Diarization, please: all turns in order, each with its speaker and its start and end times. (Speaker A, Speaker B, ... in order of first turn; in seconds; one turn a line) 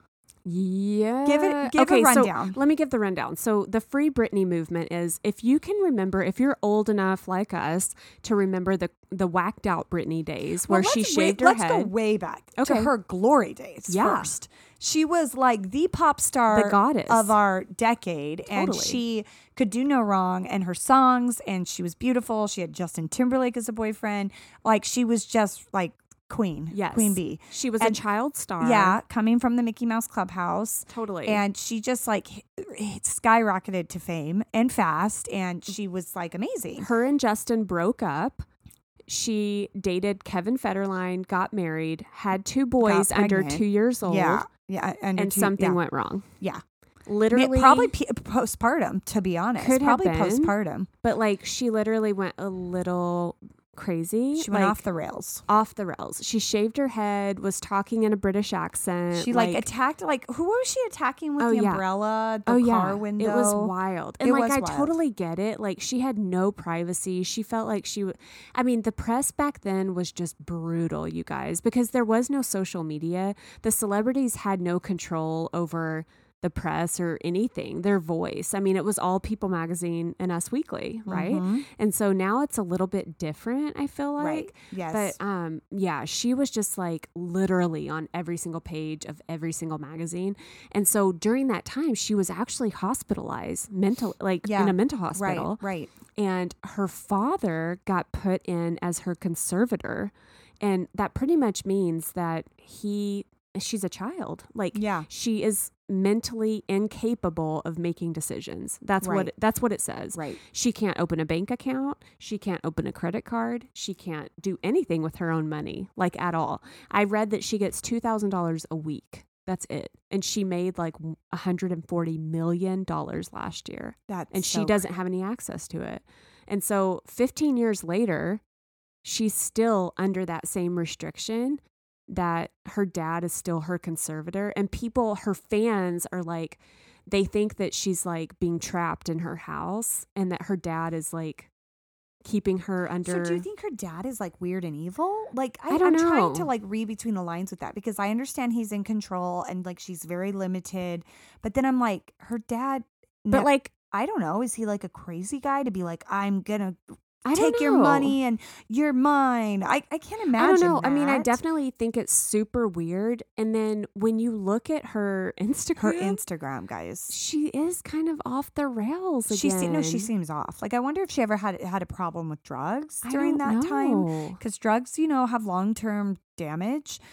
Speaker A: 0.4-11.9
Speaker B: 1.2-2.5
Speaker B: 10.7-28.0
Speaker A: 12.6-12.9
Speaker A: 13.9-14.3
Speaker A: 16.5-17.4
Speaker A: 18.4-19.0
Speaker A: 26.7-29.0
Speaker B: 28.6-36.9
Speaker A: 30.9-31.4
Speaker A: 36.8-38.4
Speaker A: 39.1-44.5
Speaker B: 42.8-45.8
Speaker A: 45.1-46.2
Speaker A: 47.1-47.9
Speaker B: 47.3-50.9
Speaker A: 49.6-54.8
Speaker B: 54.4-55.4
Speaker A: 55.5-59.6
Speaker B: 59.1-65.0
Speaker A: 61.4-61.8
Speaker A: 62.5-95.6
Speaker B: 81.1-81.7
Speaker B: 84.2-85.2
Speaker B: 94.4-95.9
Speaker A: 96.1-128.4
Speaker B: 104.7-105.1
Speaker B: 109.0-109.3
Speaker B: 110.1-110.4
Speaker B: 124.1-124.8
Speaker A: 129.0-141.5
Speaker A: 142.2-143.4
Speaker B: 143.0-156.8
Speaker A: 145.7-146.5
Speaker A: 153.3-153.7
Speaker A: 157.2-158.2
Speaker B: 157.3-161.4
Speaker A: 160.3-166.2
Speaker B: 165.8-167.1
Speaker A: 167.1-170.1
Speaker B: 169.3-177.0
Speaker A: 173.0-174.4